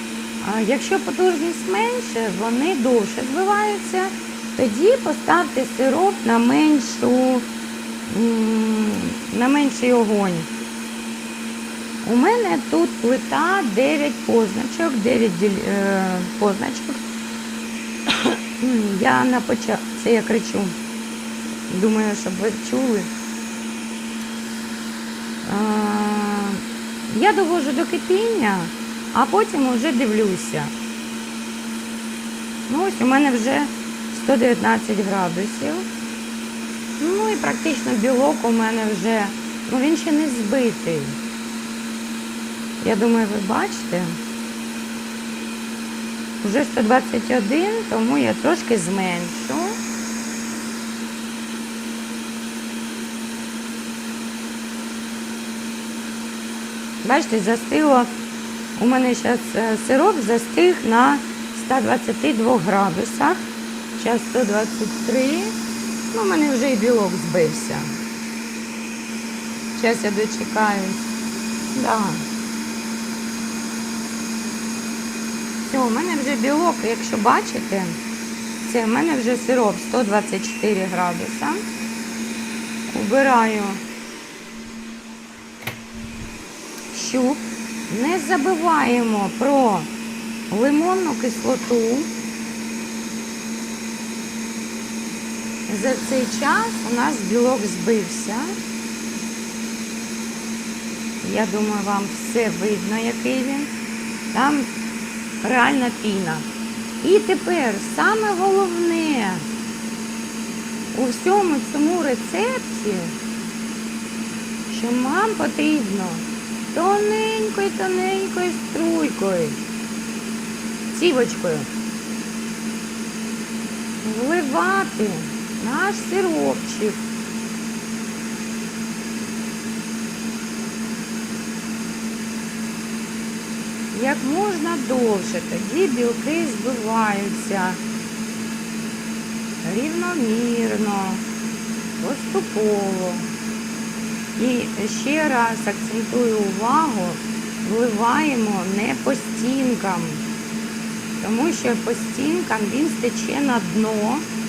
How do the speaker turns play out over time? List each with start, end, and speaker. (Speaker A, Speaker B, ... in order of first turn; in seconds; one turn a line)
Speaker A: 0.4-7.5
Speaker A: 8.1-10.5
Speaker A: 12.0-17.0
Speaker A: 18.6-20.8
Speaker A: 21.7-23.1
Speaker A: 25.4-30.7
Speaker A: 32.7-35.9
Speaker A: 37.0-41.2
Speaker A: 42.8-44.2
Speaker A: 46.4-49.8
Speaker A: 57.0-58.1
Speaker A: 58.8-65.5
Speaker A: 66.1-67.9
Speaker A: 69.7-71.1
Speaker A: 71.7-72.2
Speaker A: 75.6-78.0
Speaker A: 78.6-81.6
Speaker A: 82.9-83.8
Speaker A: 86.9-89.9
Speaker A: 90.5-92.1
Speaker A: 95.7-98.5
Speaker A: 101.2-103.7
Speaker A: 104.3-104.7
Speaker A: 105.4-106.5
Speaker A: 107.0-109.5
Speaker A: 110.9-113.2
Speaker A: 114.7-119.6
Speaker A: 120.9-121.7
Speaker A: 124.0-127.0
Speaker A: 133.9-137.8
Speaker A: 139.6-141.2
Speaker A: 142.0-143.3
Speaker A: 144.4-150.2
Speaker A: 151.2-154.3